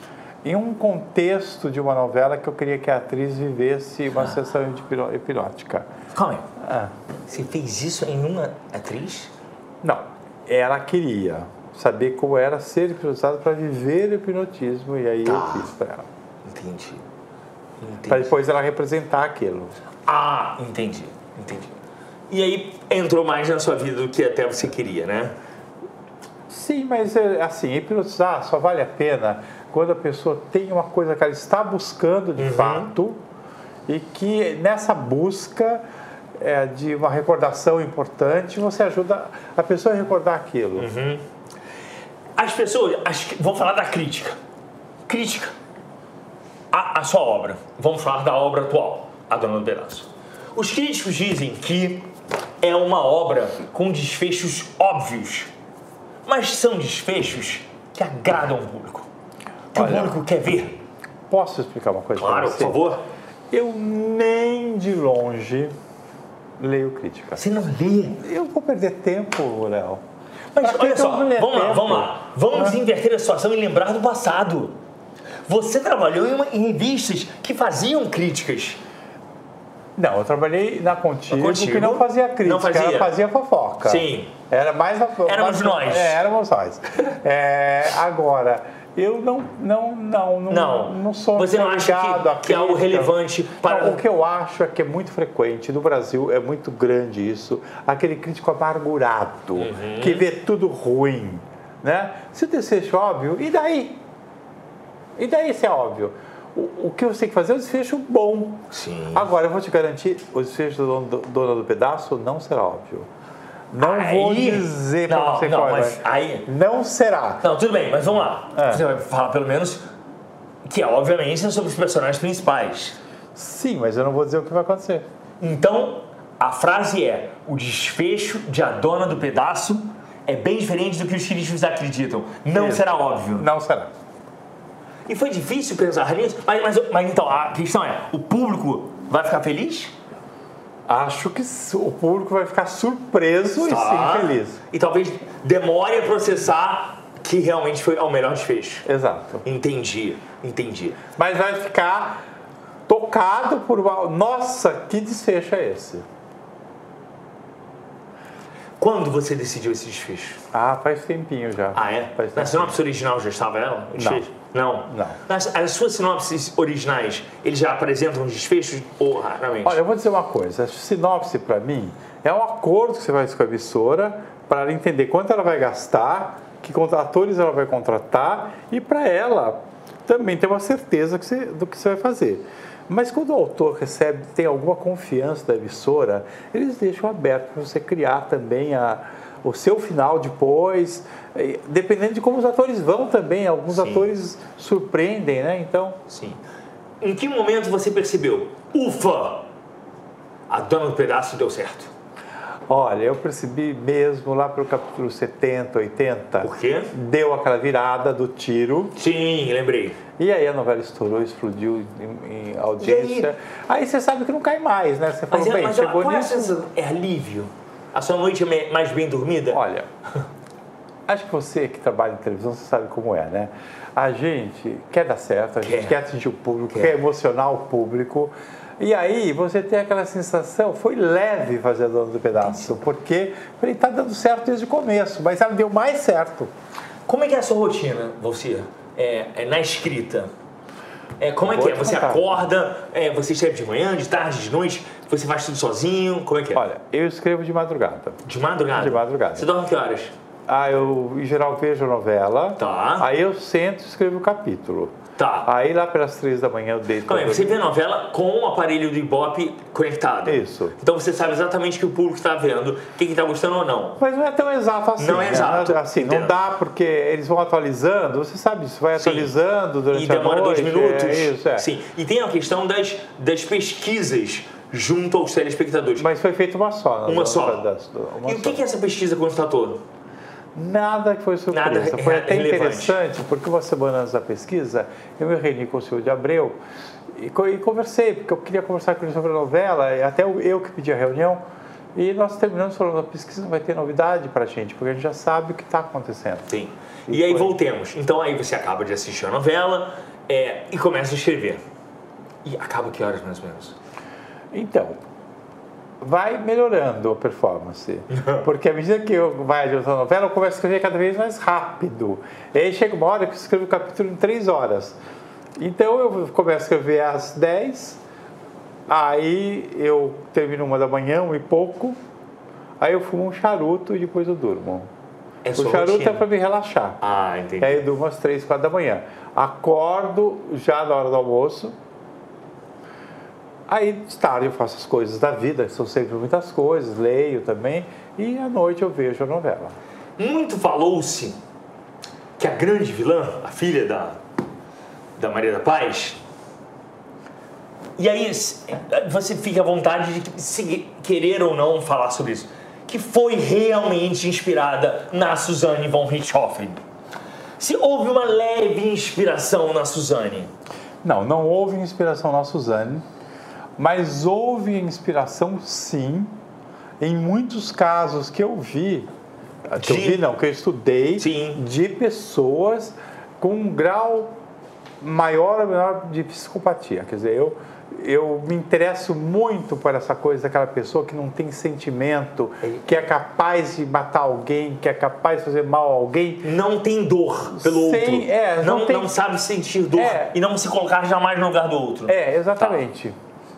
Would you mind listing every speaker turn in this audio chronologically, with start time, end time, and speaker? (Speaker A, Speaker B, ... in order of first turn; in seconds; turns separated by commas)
Speaker A: 0.4-5.9, Speaker B: 6.1-6.5, Speaker A: 6.6-6.9, Speaker B: 7.3-9.3, Speaker A: 9.8-16.1, Speaker B: 15.2-15.7, Speaker B: 16.4-17.0, Speaker B: 17.8-18.4, Speaker A: 18.1-19.8, Speaker B: 20.1-21.8, Speaker B: 22.3-25.4, Speaker A: 26.5-33.2, Speaker B: 32.4-32.9, Speaker A: 33.9-35.9, Speaker A: 36.4-40.9, Speaker B: 40.8-41.2, Speaker B: 42.4-44.4, Speaker B: 45.1-45.5, Speaker B: 46.7-55.5, Speaker B: 56.2-59.1, Speaker A: 59.7-60.2, Speaker B: 59.7-60.8, Speaker A: 61.3-62.8, Speaker B: 62.2-63.0, Speaker A: 63.5-65.8, Speaker A: 66.6-67.4, Speaker B: 67.4-68.2, Speaker A: 68.2-70.0, Speaker B: 70.5-74.8, Speaker A: 70.6-72.8, Speaker B: 75.5-78.8, Speaker A: 80.0-104.0, Speaker B: 81.3-83.1, Speaker B: 83.8-84.3, Speaker B: 85.2-86.2, Speaker B: 90.5-94.0, Speaker B: 99.6-100.2, Speaker A: 105.2-113.1, Speaker B: 108.7-109.3, Speaker A: 113.7-117.5, Speaker B: 113.8-116.5, Speaker B: 117.4-119.8, Speaker A: 118.5-118.8, Speaker B: 120.7-123.0, Speaker A: 123.3-125.1, Speaker B: 125.4-133.5, Speaker A: 132.5-133.9, Speaker B: 135.1-139.9, Speaker A: 140.9-144.6, Speaker B: 143.6-148.9, Speaker A: 148.9-149.4, Speaker B: 149.4-151.0, Speaker A: 151.2-152.2, Speaker A: 152.9-156.1, Speaker B: 158.8-160.4, Speaker A: 160.5-162.8, Speaker B: 161.7-169.8, Speaker A: 164.0-164.3, Speaker A: 164.9-165.2, Speaker A: 169.6-196.0, Speaker B: 193.7-194.1, Speaker B: 196.1-196.4, Speaker B: 197.0-199.5, Speaker B: 200.5-201.9, Speaker A: 202.7-209.0, Speaker B: 206.4-206.9, Speaker B: 209.0-210.0, Speaker A: 210.2-216.6, Speaker B: 212.8-213.3, Speaker B: 215.3-219.6, Speaker A: 219.5-219.9, Speaker A: 221.1-236.5, Speaker B: 225.6-226.0, Speaker B: 232.4-232.7, Speaker B: 237.1-240.3, Speaker B: 241.2-246.6, Speaker A: 241.4-242.5, Speaker A: 246.5-248.2, Speaker B: 248.2-250.1, Speaker A: 248.7-249.5, Speaker A: 250.5-257.6, Speaker B: 252.6-253.1, Speaker B: 255.2-255.5, Speaker B: 257.1-264.0, Speaker A: 260.2-260.8, Speaker A: 264.0-271.7, Speaker B: 265.0-266.4, Speaker B: 269.0-269.3, Speaker B: 269.9-276.1, Speaker A: 276.0-278.6, Speaker B: 277.1-277.7, Speaker B: 278.2-279.8, Speaker A: 280.6-286.6, Speaker B: 281.5-283.0, Speaker A: 287.1-291.4, Speaker A: 291.9-296.5, Speaker B: 296.5-301.6, Speaker A: 297.1-297.6, Speaker B: 302.4-303.8, Speaker A: 304.5-305.0, Speaker A: 306.0-315.0, Speaker B: 308.1-308.5, Speaker A: 315.6-318.0, Speaker A: 318.9-322.0, Speaker A: 322.8-324.9, Speaker B: 325.4-326.2, Speaker A: 325.6-327.0, Speaker B: 327.0-327.8, Speaker A: 327.6-331.8, Speaker A: 333.7-339.8, Speaker B: 340.2-341.4, Speaker B: 342.4-344.2, Speaker B: 345.2-346.2, Speaker B: 348.0-356.8, Speaker B: 357.6-360.5, Speaker A: 361.0-363.1, Speaker A: 363.8-366.4, Speaker A: 367.0-369.1, Speaker A: 369.7-374.4, Speaker B: 369.8-370.2, Speaker B: 371.2-371.6, Speaker A: 375.0-386.5, Speaker B: 382.6-383.0, Speaker B: 386.4-392.8, Speaker A: 387.5-389.1, Speaker A: 389.9-390.4, Speaker A: 392.1-393.2